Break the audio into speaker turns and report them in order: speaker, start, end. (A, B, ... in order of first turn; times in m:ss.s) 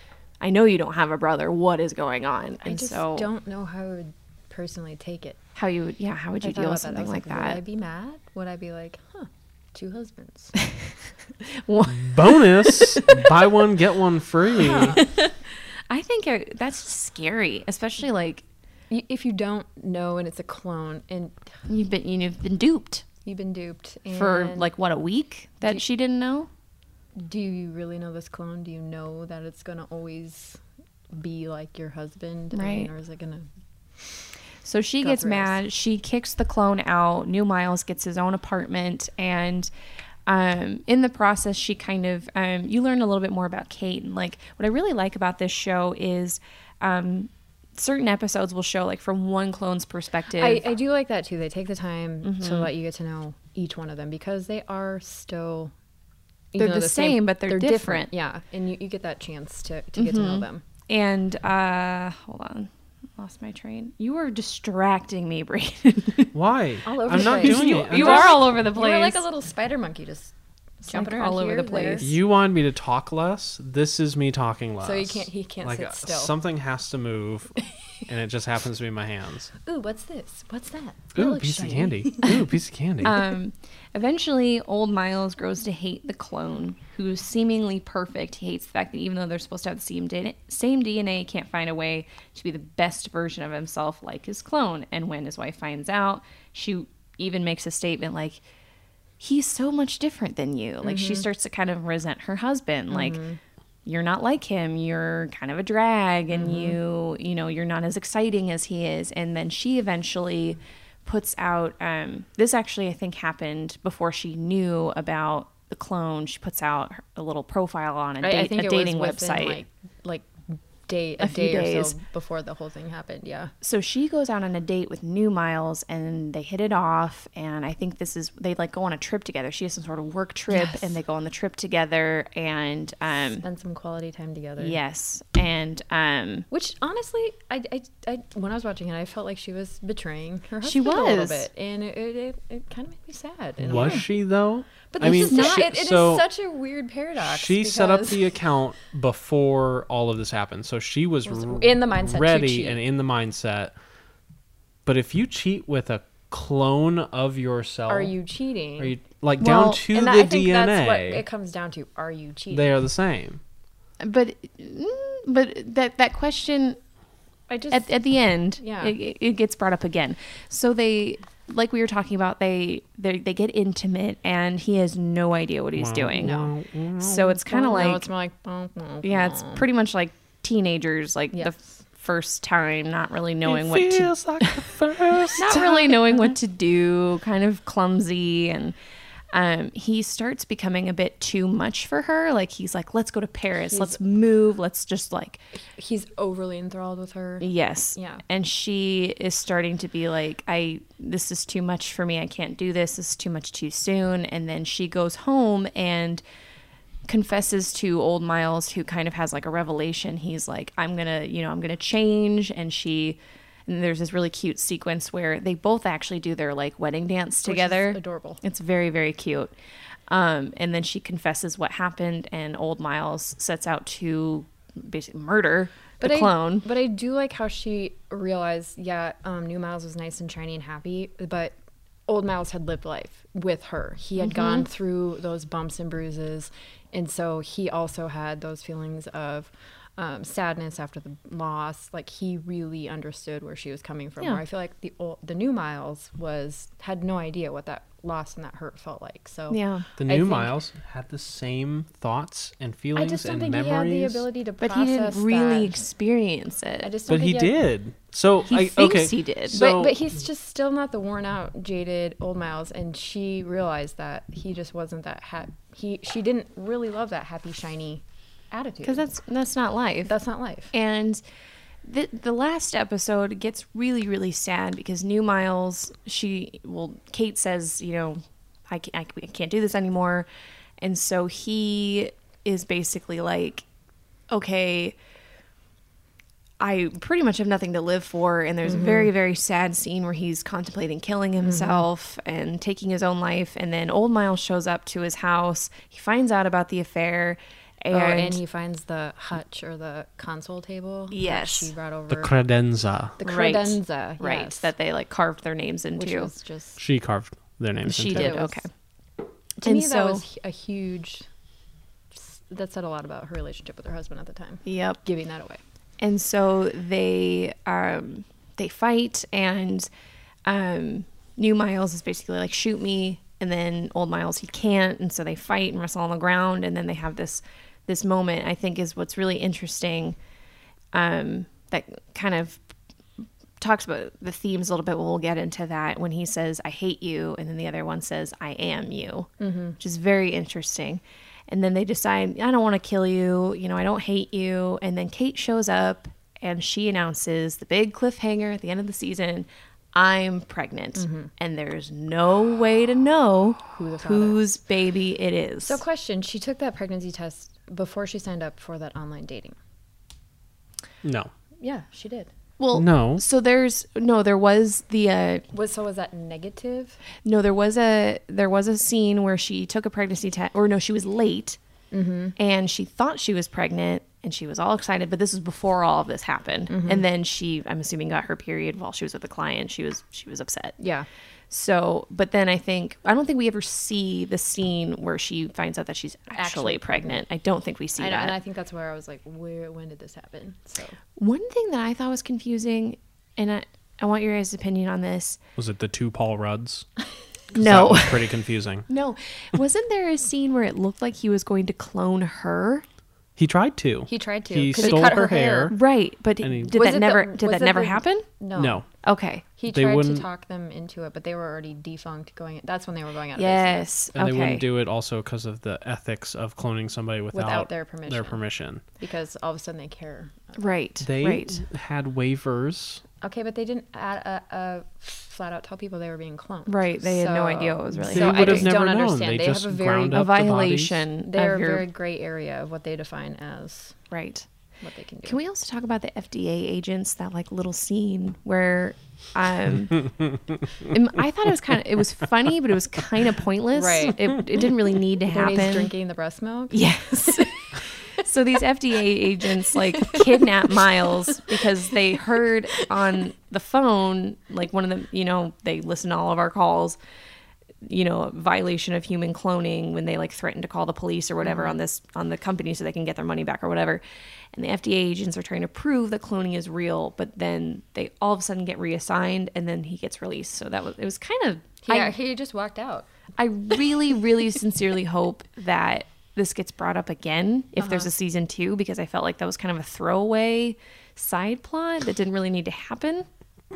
0:00.4-0:03.3 A
0:02.6-0:05.4 B
0:05.6-0:07.6 A
0:06.4-0:10.6 B
0:11.5-0:13.4 A
0:11.9-0:15.0 C
0:14.6-0:15.0 B
0:14.8-0:18.4 A
0:18.9-0:21.5 B
0:21.7-0:23.1 A
0:23.2-0:24.7 B
0:24.1-0:26.5 A
0:27.2-0:30.6 B
0:31.1-0:33.5 B
0:32.5-0:32.9 A
0:34.6-0:39.7 A
0:35.0-0:35.6 B
0:40.3-0:50.6 A
0:50.4-0:55.7 B
0:52.2-0:52.7 A
0:56.5-1:00.6 B
0:56.6-0:58.1 A
1:00.0-1:06.3 A
1:06.3-1:08.5 C
1:06.8-1:12.1 B
1:07.1-1:09.2 A
1:10.9-1:12.2 A
1:12.0-1:17.6 C
1:14.8-1:16.3 B
1:18.1-1:19.5 C
1:19.6-1:22.4 B
1:21.2-1:23.2 C
1:23.0-1:38.4 A
1:39.2-1:43.2 A
1:40.8-1:41.3 B
1:42.9-1:43.4 B
1:43.8-1:59.6 A
1:46.3-1:46.8 B
1:58.2-2:03.5 B
2:01.2-2:02.0 A
2:03.6-2:13.4 A
2:10.5-2:11.0 B
2:13.4-2:14.8 B
2:14.6-2:16.5 A
2:16.5-2:24.1 B
2:20.6-2:21.5 A
2:23.6-2:26.3 C
2:23.8-2:24.0 A
2:24.9-2:28.3 B
2:25.3-2:25.6 A
2:27.2-2:33.7 C
2:31.3-2:32.8 B
2:34.8-2:38.1 C
2:37.9-2:39.0 B
2:38.8-2:41.2 C
2:39.4-2:39.8 A
2:39.8-2:42.7 B
2:42.5-2:43.4 C
2:44.0-2:46.8 A
2:47.5-2:47.9 B
2:47.7-2:56.4 A
2:48.6-2:49.0 B
2:55.8-2:57.4 C
2:56.2-2:56.5 B
2:57.0-2:58.1 A
2:57.5-2:59.7 B
2:59.0-3:04.6 A
3:03.4-3:06.0 C
3:05.3-3:08.8 A
3:09.3-3:15.4 A
3:13.7-3:14.0 B
3:15.8-3:18.2 B
3:17.4-3:26.2 A
3:27.1-3:39.5 A
3:37.4-3:38.4 B
3:40.1-3:46.7 A
3:46.0-3:51.6 B
3:52.1-4:10.5 B
3:54.2-3:54.7 A
4:09.5-4:09.9 A
4:10.0-4:14.2 C
4:13.0-4:15.8 B
4:14.6-4:16.9 A
4:16.8-4:17.6 B
4:17.1-4:20.1 C
4:18.5-4:19.6 A
4:19.5-4:29.1 B
4:28.8-4:30.1 A
4:30.1-4:30.7 B
4:30.7-4:31.2 A
4:31.8-4:40.3 A
4:40.8-4:43.6 A
4:44.3-4:45.0 A
4:46.6-4:58.4 A
4:48.6-4:49.1 B
4:51.4-4:51.8 B
4:57.9-5:02.3 B
5:01.1-5:01.7 A
5:02.1-5:03.2 C
5:03.2-5:04.7 B
5:03.2-5:06.3 A
5:06.0-5:06.8 B
5:06.8-5:08.4 C
5:07.8-5:08.7 A
5:08.1-5:08.6 B
5:09.6-5:11.3 B
5:09.6-5:10.2 A
5:12.1-5:15.6 B
5:14.7-5:15.0 A
5:16.0-5:19.9 A
5:20.5-5:30.2 A
5:30.9-5:32.6 A
5:33.6-5:55.8 A
5:39.4-5:39.8 B
5:51.0-5:51.3 B
5:53.7-5:54.4 B
5:55.6-5:59.6 B
6:01.0-6:01.3 C
6:01.6-6:02.3 B
6:02.6-6:05.5 A
6:02.7-6:03.2 C
6:05.5-6:07.0 B
6:07.2-6:11.6 A
6:11.9-6:12.3 B
6:12.4-6:20.8 A
6:16.7-6:17.0 B
6:20.8-6:21.1 B
6:21.5-6:28.3 A
6:26.4-6:27.2 B
6:28.0-6:31.0 B
6:31.2-6:35.4 A
6:35.6-6:36.9 C
6:37.5-6:38.3 A
6:37.6-6:38.9 C
6:38.9-6:42.8 A
6:43.4-6:45.8 C
6:44.1-6:45.7 B
6:44.8-6:48.3 A
6:46.4-6:46.8 C
6:46.7-6:48.8 B
6:48.6-6:48.9 C
6:49.0-6:49.4 A
6:49.6-6:53.9 B
6:49.7-6:50.3 C
6:53.4-6:54.6 A
6:54.1-6:58.8 C
6:57.3-6:58.4 B
6:59.0-7:00.6 B
7:00.6-7:01.6 A
7:01.0-7:03.0 C
7:03.2-7:10.2 B
7:06.7-7:08.7 A
7:08.0-7:11.1 C
7:10.1-7:11.8 A
7:11.2-7:14.0 B
7:14.1-7:14.5 A
7:14.8-7:15.4 B
7:15.3-7:20.1 A
7:20.9-7:25.9 A
7:23.7-7:24.3 B
7:25.3-7:27.7 B
7:26.7-7:37.0 A
7:29.7-7:30.4 B
7:31.3-7:31.6 B
7:37.8-7:44.0 A
7:41.4-7:41.8 B
7:44.5-7:52.1 A
7:51.8-7:53.1 B
7:53.4-8:03.3 A
7:57.8-7:58.1 B